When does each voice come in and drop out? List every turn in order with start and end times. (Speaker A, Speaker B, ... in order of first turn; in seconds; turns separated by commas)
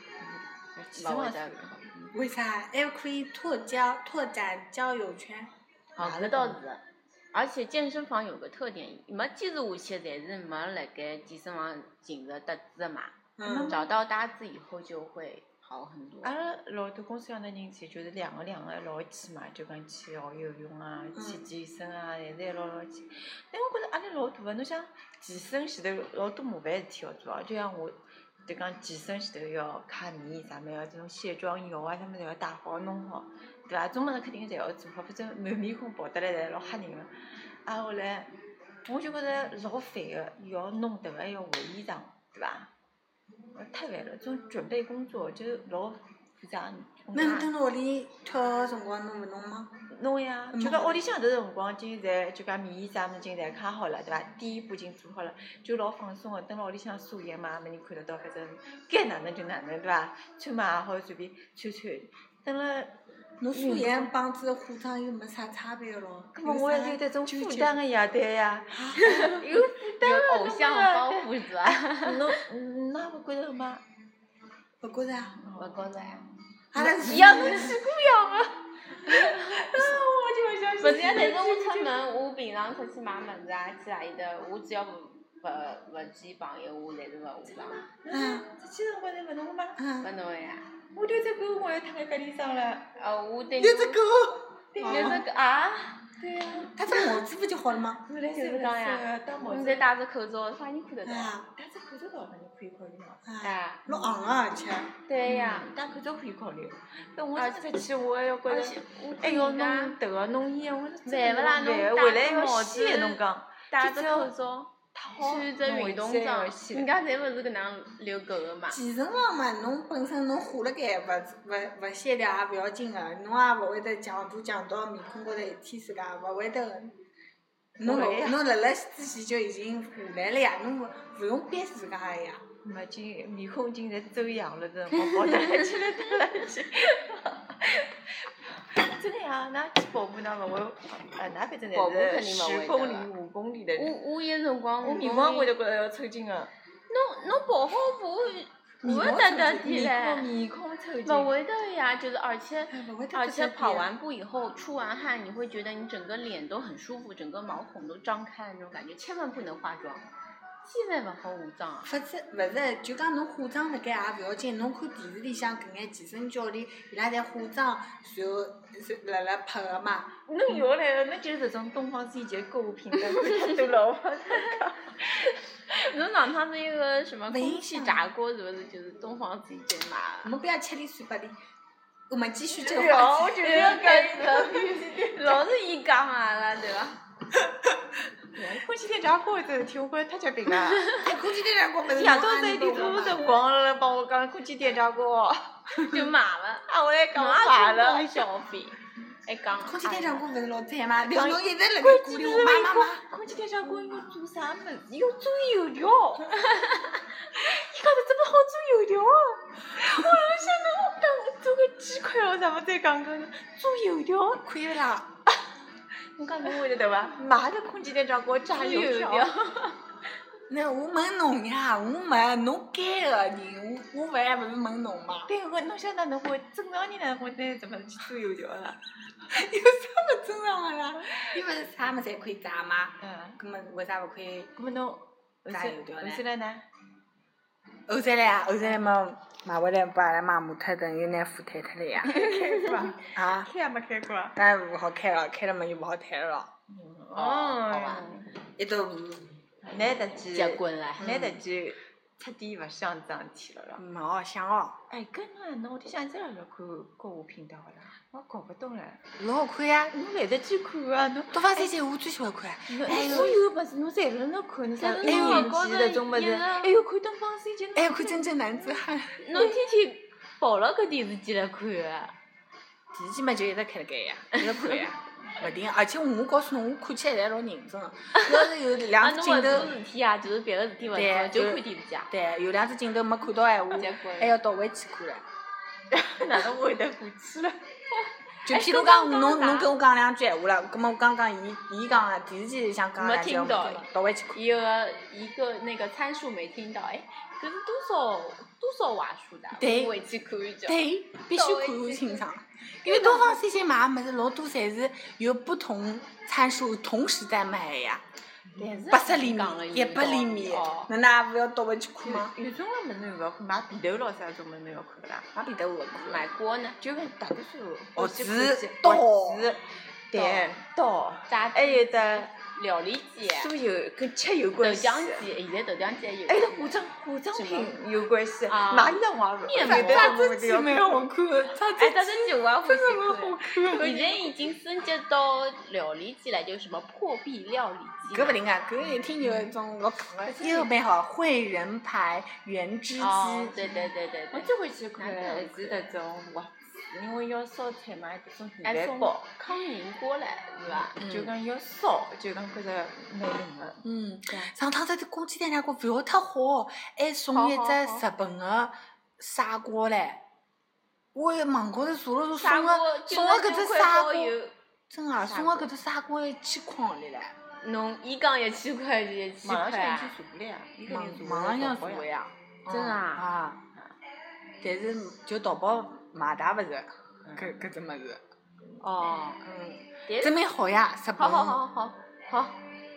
Speaker A: 0.2-2.1, Speaker B: 0.9-1.8, Speaker C: 2.1-6.6, Speaker B: 6.0-6.8, Speaker B: 7.3-16.3, Speaker C: 13.4-13.8, Speaker A: 13.4-13.9, Speaker A: 16.2-37.1, Speaker C: 21.1-21.4, Speaker A: 37.6-38.3, Speaker A: 38.8-42.7, Speaker A: 43.5-47.5, Speaker C: 47.1-49.7, Speaker A: 49.9-62.9, Speaker C: 50.5-51.0, Speaker C: 63.4-67.8, Speaker A: 63.5-64.1, Speaker A: 66.3-73.8, Speaker B: 69.0-72.4, Speaker C: 74.8-75.4, Speaker A: 75.4-76.0, Speaker B: 75.5-78.5, Speaker C: 76.7-77.8, Speaker A: 76.8-78.2, Speaker A: 79.0-82.0, Speaker B: 79.0-80.0, Speaker B: 80.8-87.8, Speaker A: 87.5-89.8, Speaker C: 88.1-88.5, Speaker C: 89.8-90.1, Speaker B: 90.0-90.7, Speaker A: 90.9-92.9, Speaker B: 93.0-94.0, Speaker C: 93.6-95.2, Speaker A: 94.7-95.2, Speaker B: 94.9-96.0, Speaker A: 96.1-96.8, Speaker C: 96.7-98.0, Speaker A: 98.1-99.9, Speaker B: 98.3-101.3, Speaker C: 101.0-101.5, Speaker A: 101.5-103.2, Speaker C: 103.2-105.0, Speaker B: 103.4-103.8, Speaker A: 103.9-104.2, Speaker B: 105.1-105.7, Speaker A: 105.2-114.3, Speaker B: 107.3-107.6, Speaker B: 108.5-110.0, Speaker B: 111.0-118.8, Speaker A: 114.9-116.9, Speaker C: 118.7-127.0, Speaker C: 127.8-132.4, Speaker A: 127.8-128.4, Speaker A: 132.6-144.0, Speaker B: 135.1-136.4, Speaker B: 141.7-143.1, Speaker B: 143.8-145.5, Speaker A: 144.8-146.5, Speaker B: 146.9-150.3, Speaker C: 148.8-149.9, Speaker A: 149.5-151.3, Speaker B: 151.1-160.0, Speaker C: 152.7-153.9, Speaker B: 160.6-161.9, Speaker C: 161.8-170.1, Speaker A: 170.3-175.2, Speaker B: 173.1-173.6, Speaker B: 175.1-180.3, Speaker C: 177.3-178.1, Speaker C: 180.2-181.4, Speaker C: 182.1-183.8, Speaker A: 182.5-185.4, Speaker B: 182.8-187.0, Speaker A: 188.3-191.1, Speaker C: 190.9-193.3, Speaker A: 191.8-196.0, Speaker B: 195.8-200.2, Speaker A: 196.7-198.3, Speaker C: 199.6-203.0, Speaker A: 201.1-206.4, Speaker B: 206.3-207.0, Speaker A: 207.3-214.4, Speaker C: 214.4-215.1, Speaker A: 216.2-219.3, Speaker B: 218.5-219.8, Speaker C: 220.5-225.3, Speaker A: 225.3-228.8, Speaker C: 229.2-234.5, Speaker A: 233.0-233.4, Speaker A: 234.6-236.6, Speaker C: 235.5-236.2, Speaker C: 237.9-242.3, Speaker A: 242.0-244.4, Speaker C: 243.1-243.5, Speaker C: 244.3-246.5, Speaker A: 246.7-248.3, Speaker B: 247.1-248.2, Speaker C: 248.6-249.3, Speaker A: 249.6-253.8, Speaker B: 250.3-251.1, Speaker C: 251.0-251.4, Speaker C: 253.8-254.8, Speaker A: 254.9-259.0, Speaker C: 259.2-259.9, Speaker A: 259.9-261.7, Speaker C: 261.3-263.4, Speaker A: 262.7-268.6, Speaker B: 263.0-263.3, Speaker B: 264.8-266.7, Speaker C: 265.0-265.5, Speaker C: 267.8-269.4, Speaker B: 269.2-272.1, Speaker C: 272.9-279.7, Speaker B: 274.3-274.9, Speaker B: 278.1-282.1, Speaker C: 280.9-285.2, Speaker B: 283.7-284.4, Speaker A: 285.9-287.6, Speaker C: 288.4-294.4, Speaker B: 288.4-289.7, Speaker B: 293.0-302.2, Speaker C: 299.6-300.0, Speaker C: 300.7-308.0, Speaker B: 302.8-303.4, Speaker A: 308.5-309.0, Speaker B: 308.6-310.9, Speaker C: 308.9-312.3, Speaker A: 312.0-315.3, Speaker C: 315.3-316.3, Speaker B: 316.0-316.8, Speaker A: 316.8-322.3, Speaker C: 317.9-319.5, Speaker B: 321.3-323.5, Speaker A: 323.2-325.3, Speaker B: 324.6-326.8, Speaker A: 326.3-331.1, Speaker B: 327.3-327.8, Speaker B: 328.5-330.3, Speaker C: 329.6-334.2, Speaker B: 331.8-338.4, Speaker C: 338.1-343.7, Speaker A: 339.2-339.5, Speaker A: 340.2-340.7, Speaker B: 343.0-345.8, Speaker A: 343.6-349.3, Speaker B: 348.6-351.1, Speaker A: 350.7-354.5, Speaker C: 351.0-351.3, Speaker C: 353.8-360.2, Speaker B: 357.3-358.1, Speaker C: 361.1-364.3, Speaker B: 362.3-364.5, Speaker C: 364.9-367.3, Speaker B: 365.2-365.7, Speaker B: 367.6-370.1, Speaker A: 369.4-372.1, Speaker C: 370.9-372.0, Speaker B: 371.8-373.3, Speaker C: 372.6-373.6, Speaker C: 374.6-378.2, Speaker A: 377.2-377.6, Speaker A: 378.8-379.3, Speaker B: 379.0-379.4, Speaker C: 379.4-381.6, Speaker B: 380.1-380.4, Speaker B: 381.2-382.6